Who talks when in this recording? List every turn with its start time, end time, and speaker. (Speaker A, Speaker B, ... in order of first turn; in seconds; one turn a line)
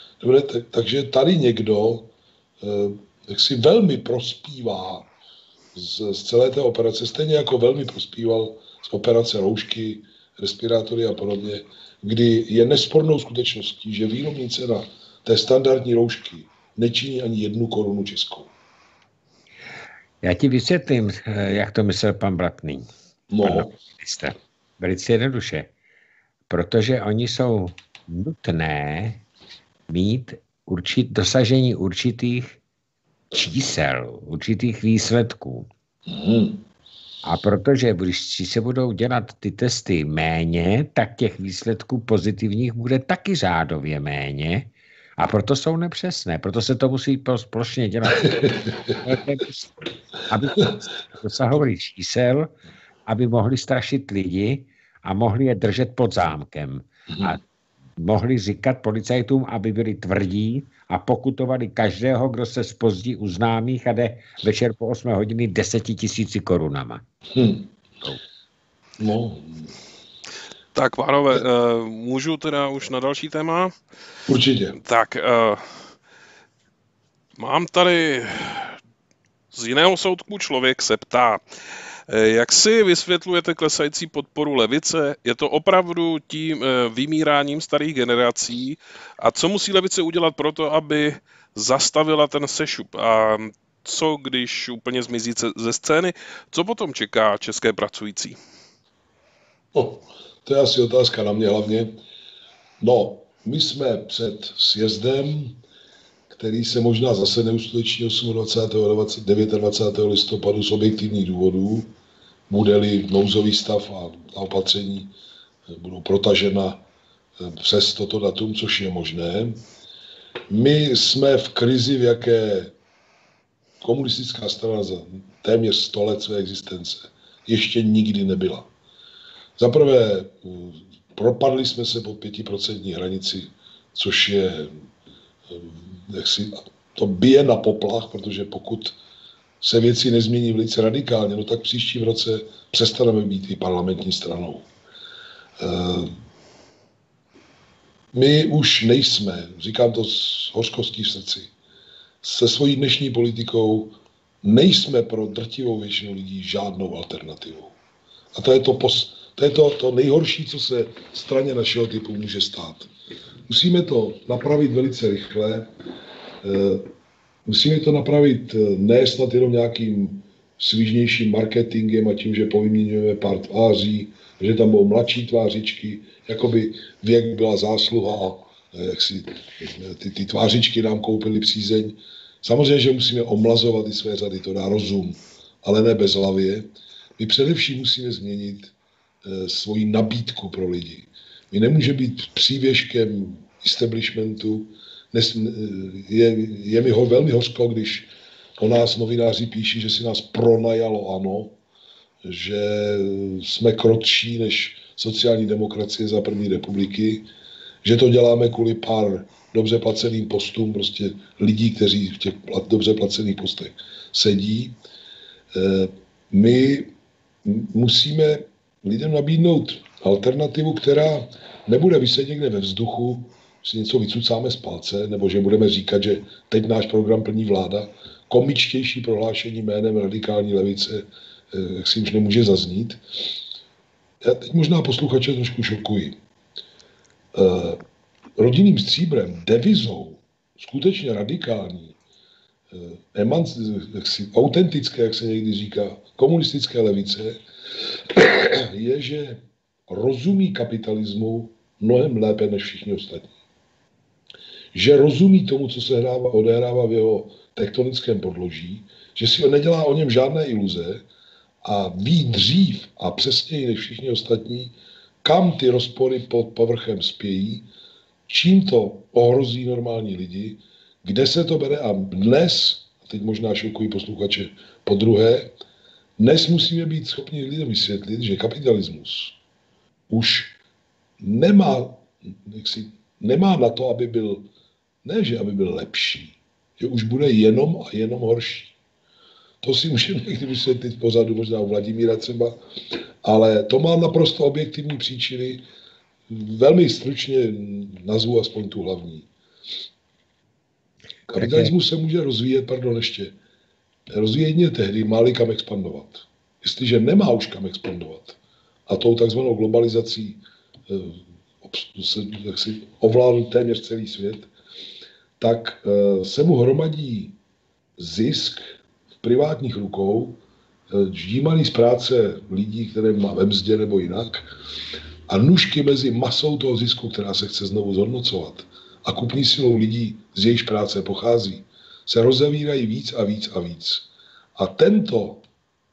Speaker A: 0.2-5.1
Speaker A: 5.7-18.5
Speaker B: 20.2-22.9
Speaker A: 23.3-23.7
Speaker B: 23.4-25.7
Speaker B: 26.5-29.2
Speaker B: 29.9-32.6
Speaker B: 33.3-35.7
Speaker A: 36.1-36.6
Speaker B: 37.2-52.5
Speaker A: 48.2-49.0
Speaker B: 53.1-57.4
Speaker A: 57.1-57.4
Speaker B: 58.0-67.0
Speaker A: 67.3-67.7
Speaker A: 69.0-69.7
Speaker C: 70.8-73.7
Speaker A: 74.3-74.8
Speaker C: 74.8-75.6
Speaker C: 77.4-78.8
Speaker C: 79.5-81.4
Speaker C: 82.1-98.4
Speaker A: 99.7-102.0
Speaker A: 102.8-105.6
Speaker A: 106.3-111.9
Speaker A: 112.5-115.1
Speaker A: 115.7-116.8
Speaker A: 117.4-119.7
Speaker A: 120.5-122.8
Speaker A: 123.8-128.7
Speaker A: 129.6-134.8
Speaker A: 135.5-139.0
Speaker A: 139.6-144.7
Speaker A: 145.6-146.2
Speaker A: 148.1-151.5
Speaker A: 152.2-157.8
Speaker A: 158.3-162.9
Speaker A: 163.5-165.7
Speaker A: 166.4-166.9
Speaker A: 167.5-201.6
Speaker A: 202.2-207.3
Speaker A: 207.8-214.8
Speaker A: 215.5-216.9
Speaker A: 217.4-233.4
Speaker A: 234.2-236.2
Speaker A: 237.3-237.8
Speaker A: 238.4-242.0
Speaker A: 242.7-253.3
Speaker A: 254.7-261.1
Speaker A: 261.6-267.7
Speaker A: 268.3-275.6
Speaker A: 276.2-279.4
Speaker A: 280.1-280.6
Speaker A: 281.2-284.5
Speaker A: 285.0-288.8
Speaker A: 289.6-295.6
Speaker A: 296.3-299.3
Speaker A: 301.3-303.4
Speaker B: 301.4-301.7
Speaker A: 304.1-314.5
Speaker A: 315.4-317.4
Speaker A: 318.0-318.6
Speaker A: 319.2-324.6
Speaker A: 325.3-335.4